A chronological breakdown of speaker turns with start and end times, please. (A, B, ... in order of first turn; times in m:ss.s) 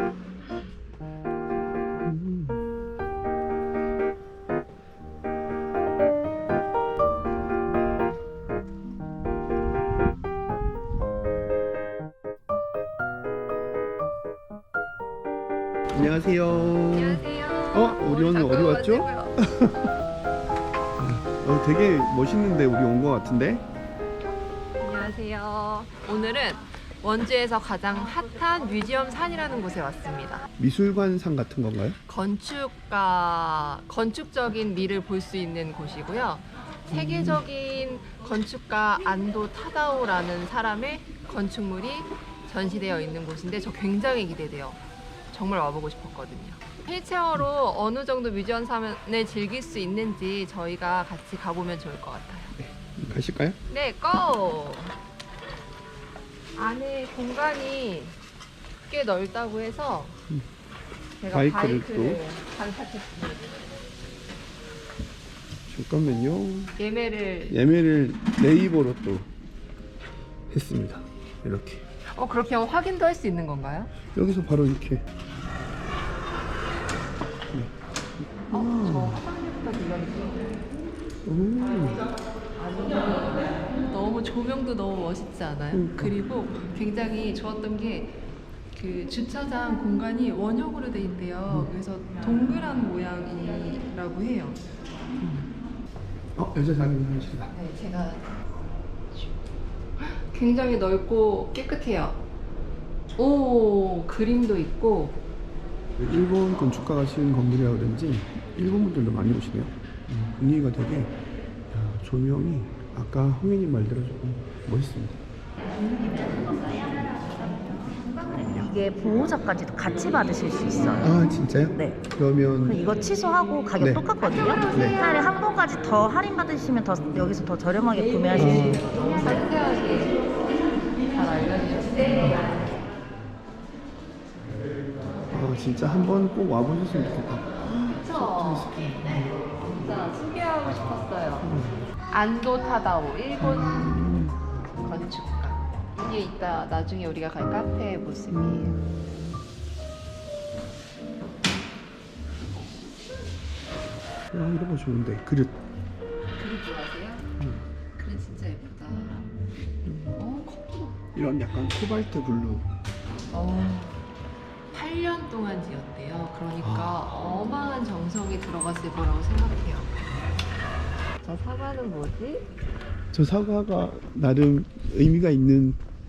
0:02.0-0:02.6 A
0:15.9-0:19.9 A
0:16.9-0:19.4 B
0:21.0-0:23.6 A
0:24.8-0:30.4 B
0:30.6-0:32.0 A
0:32.1-0:52.6 B
0:36.9-0:37.4 A
0:52.6-0:53.6 A
0:53.7-0:55.0 B
0:56.6-0:58.2 B
0:58.9-1:00.2 B
1:01.2-1:03.7 B
1:01.3-1:02.2 A
1:05.7-1:06.8 A
1:06.8-1:07.6 B
1:07.5-1:09.3 A
1:10.5-1:11.8 A
1:12.1-1:13.9 B
1:14.1-1:15.1 A
1:18.5-1:19.2 A
1:18.5-1:20.6 B
1:21.2-1:22.1 A
1:22.6-1:28.2 B
1:25.7-1:26.2 A
1:28.8-1:34.6 B
1:35.2-1:35.5 A
1:36.4-1:37.5 A
1:37.5-1:38.3 B
1:39.1-1:39.4 B
1:40.0-1:42.2 B
1:43.2-1:45.2 B
1:46.0-1:51.1 A
1:51.7-1:55.2 A
1:58.4-2:01.2 C
2:01.0-2:02.9 A
2:01.8-2:02.0 C
2:02.7-2:09.3 C
2:03.8-2:04.1 A
2:04.7-2:05.0 A
2:08.3-2:08.9 A
2:08.6-2:10.3 B
2:11.1-2:12.8 B
2:12.1-2:12.6 A
2:15.3-2:19.5 A
2:17.7-2:21.5 B
2:21.4-2:21.9 A
2:22.1-2:24.0 B
2:23.4-2:24.4 A
2:24.8-2:28.8 B
2:28.3-2:28.8 A
2:34.3-2:35.6 A
2:36.4-2:37.3 B
2:37.4-2:37.7 A
2:38.0-2:39.3 B
2:39.8-2:40.2 A
2:40.2-2:41.0 B
2:41.1-2:42.7 A
2:43.3-2:44.0 B
2:44.7-2:50.0 B
2:46.6-2:47.1 A
2:51.2-2:52.5 B
2:53.1-2:55.8 A